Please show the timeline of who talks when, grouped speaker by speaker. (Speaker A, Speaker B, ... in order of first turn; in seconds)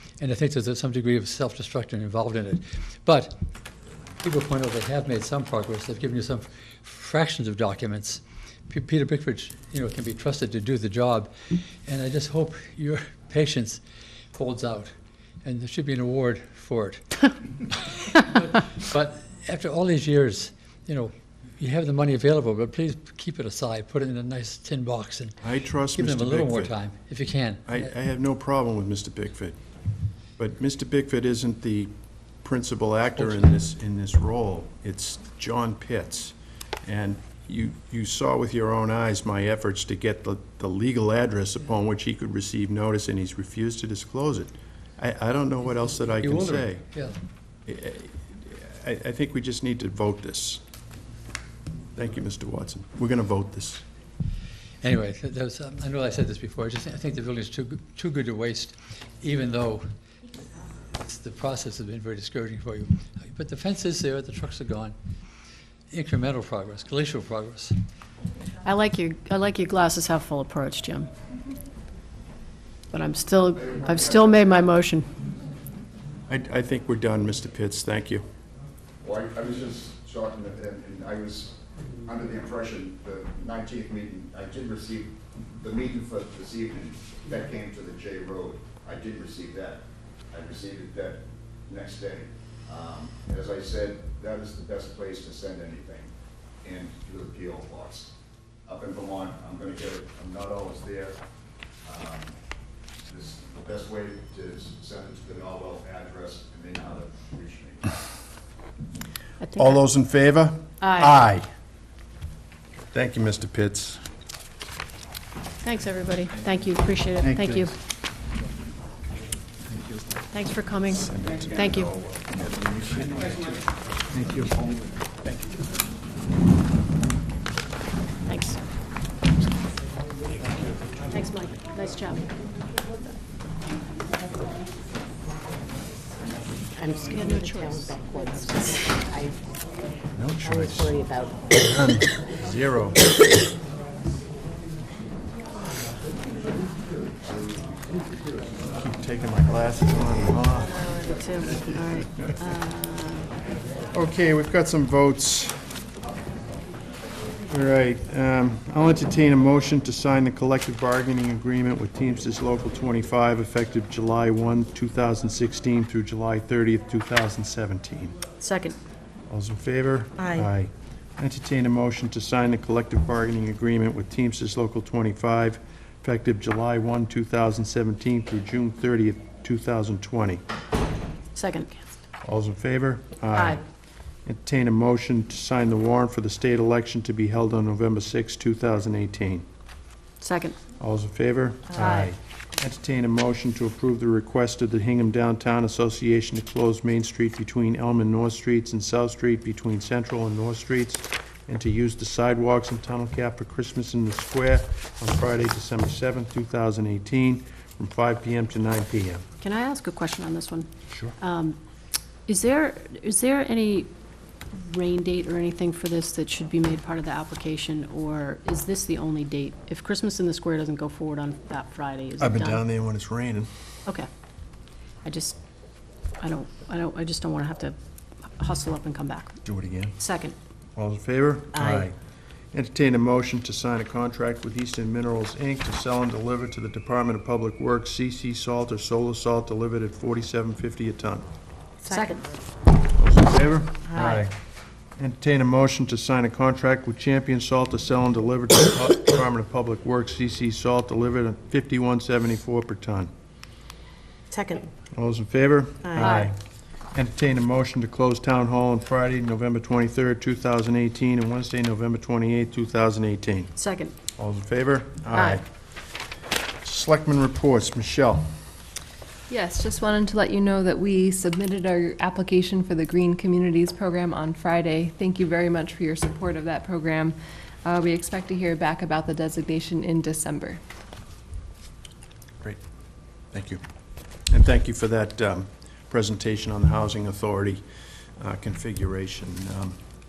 Speaker A: 0.2-3.4, 4.2-13.8, 14.3-25.4, 25.9-27.9, 33.2-33.5, 46.2-47.1, 54.8-59.9, 61.0-64.9, 65.9-67.7
Speaker B: 25.4-26.7, 27.7-29.6, 30.4-46.9, 47.6-50.6, 51.9-53.8, 76.3-78.2, 109.5-111.5, 112.9-114.0, 120.9-123.4, 124.1-124.6, 130.4-130.8, 140.1-141.0, 141.5-143.1, 148.7-150.8, 153.9-155.7, 157.5-168.2, 169.3-180.4, 182.2-183.6, 184.2-189.4, 190.8-209.2, 210.9-211.1, 222.2-223.5, 229.4-230.0, 230.8-231.9, 232.5-241.3, 242.9-244.3, 245.0-253.1, 254.9-256.4, 256.9-263.5, 264.2-265.4, 266.6-268.3, 283.3-283.6, 284.3-287.6, 288.2-289.8
Speaker C: 68.6-71.1, 72.9-75.1, 109.4-109.8, 110.8-111.2, 115.6-117.7, 120.3-121.9, 128.2-128.6, 131.1-132.3, 137.1-137.9, 150.6-153.3, 168.4-168.8, 181.3-181.8, 183.3-183.6, 190.2-190.6, 209.4-210.7, 211.2-211.6, 212.2-213.9, 214.5-222.6, 225.0-225.3, 226.2-227.8, 228.4-229.4, 230.0-230.3, 241.9-242.2, 256.0-256.3, 263.6-263.9, 265.1-265.4
Speaker D: 73.5-74.7, 79.0-96.1, 96.6-98.1, 98.7-101.2, 101.8-102.3, 103.0-107.9
Speaker E: 136.8-139.4, 140.4-141.4, 170.2-170.5, 191.8-192.0, 231.5-231.8, 241.8-242.1, 243.8-244.2, 254.3-254.7, 255.8-256.2
Speaker F: 269.3-280.6